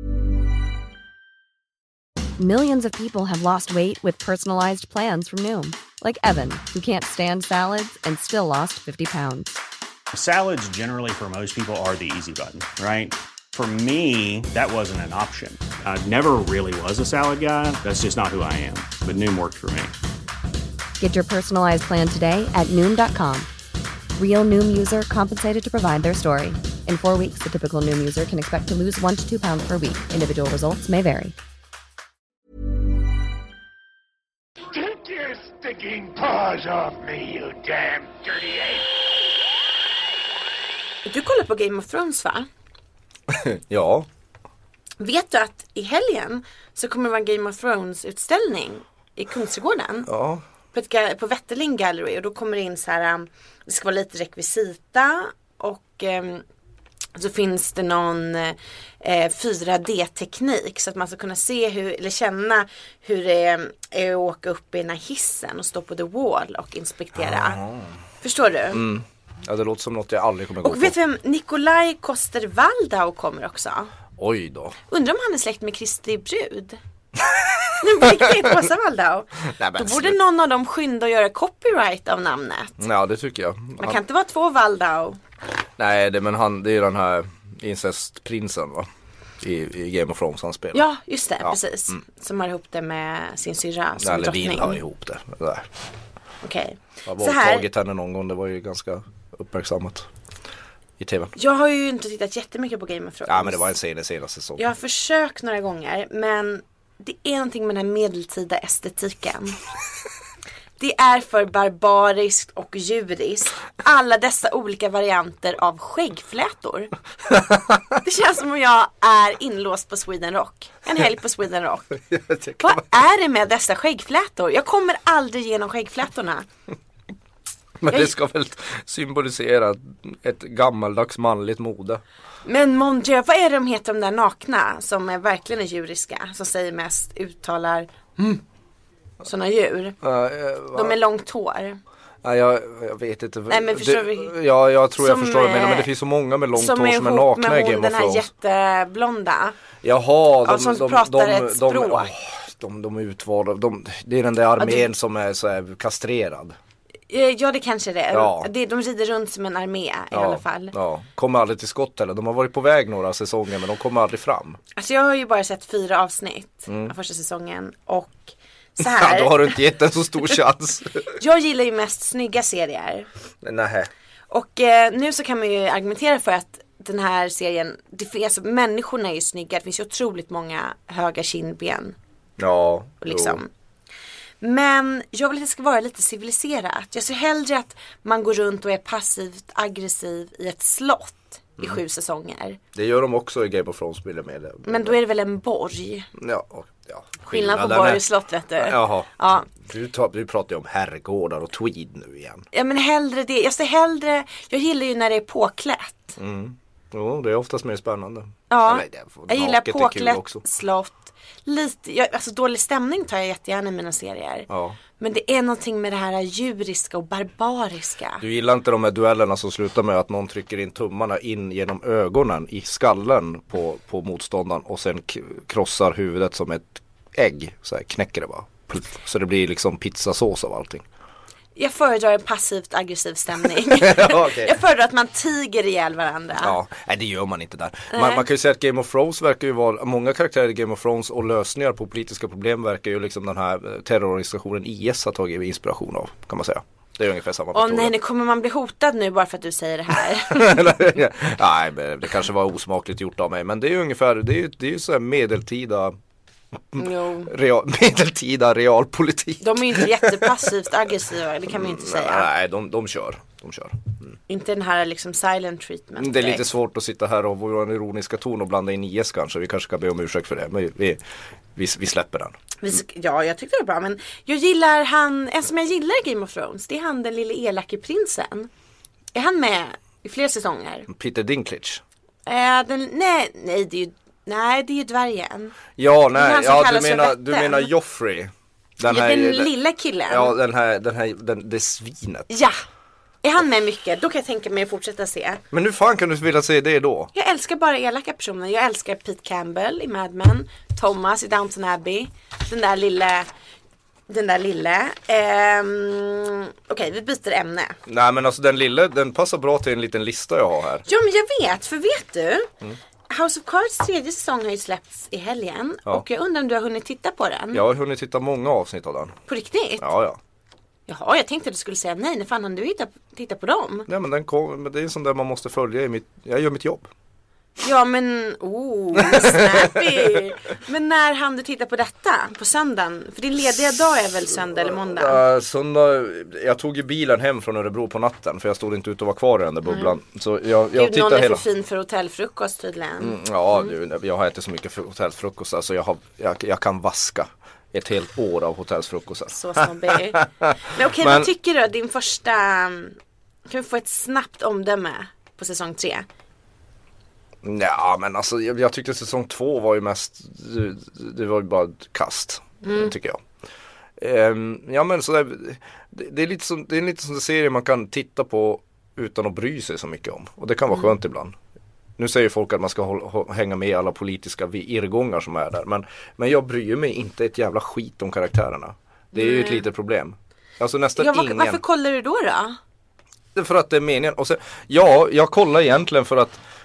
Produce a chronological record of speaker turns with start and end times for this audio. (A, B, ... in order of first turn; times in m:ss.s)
0:02.4-0:09.6 A
0:10.1-0:19.9 B
0:21.0-0:23.5 A
0:24.2-0:31.4 A
0:34.7-0:38.8 C
0:41.1-0:42.5 D
0:43.3-0:44.1 E
0:45.0-0:50.1 D
0:50.1-0:50.4 E
0:50.7-0:56.4 D
0:57.2-1:07.6 D
1:07.2-1:07.9 E
1:08.2-1:08.8 D
1:08.7-1:11.0 E
1:10.6-1:13.9 D
1:14.2-1:14.8 E
1:14.9-1:16.8 D
1:17.2-1:18.5 E
1:17.8-1:22.8 D
1:19.6-1:20.2 E
1:22.8-1:24.0 E
1:23.8-1:25.2 D
1:25.8-1:28.9 E
1:29.4-1:30.8 E
1:30.7-1:34.8 D
1:31.4-1:32.0 E
1:34.0-1:35.7 E
1:36.4-1:37.7 D
1:37.1-1:40.1 E
1:41.0-1:41.3 E
1:41.4-1:43.7 D
1:43.3-1:44.7 E
1:44.6-1:49.6 D
1:50.8-1:56.9 D
1:57.3-1:57.8 E
1:58.0-2:02.0 D
2:02.1-2:02.9 E
2:02.6-2:06.5 D
2:07.8-2:12.0 E
2:12.4-2:18.4 D
2:19.2-2:20.0 D
2:20.0-2:21.0 E
2:20.7-2:21.8 D
2:22.2-2:28.3 E
2:23.5-2:24.4 D
2:25.0-2:25.9 D
2:26.6-2:29.6 D
2:29.8-2:36.6 E
2:30.4-2:32.1 D
2:34.6-2:34.8 D
2:37.1-2:40.8 D
2:38.1-2:38.5 E
2:40.1-2:44.6 E
2:44.8-2:49.6 D
2:46.7-2:46.9 E
2:48.8-2:51.2 E
2:51.2-2:53.1 D
2:53.4-2:53.9 E
2:54.3-3:02.0 D
3:02.4-3:03.4 E
3:03.0-3:03.5 D
3:04.4-3:12.6 D
3:12.7-3:15.0 E
3:14.6-3:16.1 D
3:16.2-3:18.0 E
3:17.3-3:19.5 D
3:18.6-3:22.4 E
3:22.5-3:26.2 D
3:26.2-3:30.4 E
3:28.5-3:34.5 D
3:34.5-3:34.8 E
3:35.0-3:38.2 D
3:38.2-3:50.8 E
3:51.6-3:56.6 D
3:53.7-3:54.5 E
3:56.4-4:07.9 E
3:57.9-3:58.2 D
4:07.5-4:10.9 D
4:10.3-4:16.0 E
4:16.7-4:20.5 E
4:16.8-4:17.3 D
4:19.4-4:22.3 D
4:21.5-4:24.2 E
4:24.3-4:26.5 D
4:26.0-4:31.0 E
4:31.6-4:32.4 E
4:32.6-4:38.5 D
4:39.1-4:40.9 D
4:40.9-4:41.8 E
4:42.3-4:45.6 D
4:45.8-4:49.5 E
4:46.2-4:47.7 D
4:48.8-4:50.4 D
4:50.1-4:52.3 E
4:52.3-4:52.6 D
4:53.2-4:55.4 D
4:55.5-4:57.1 E
4:57.1-5:03.3 D
5:04.1-5:07.8 D
5:07.9-5:10.9 E
5:10.9-5:12.5 D
5:13.1-5:17.6 D
5:17.5-5:19.2 E
5:19.3-5:19.9 D
5:19.8-5:20.2 E
5:20.9-5:23.9 D
5:23.9-5:26.9 E
5:27.6-5:35.2 D
5:29.0-5:30.2 E
5:34.5-5:41.4 E
5:39.7-5:40.0 D
5:40.7-5:43.7 D
5:43.0-5:51.3 E
5:49.3-5:53.0 D
5:53.5-5:56.1 D
5:57.4-6:03.2 E
6:02.6-6:02.9 D
6:04.0-6:11.4 E
6:12.0-6:21.6 E
6:19.1-6:19.7 D
6:21.0-6:22.6 D
6:23.4-6:26.4 E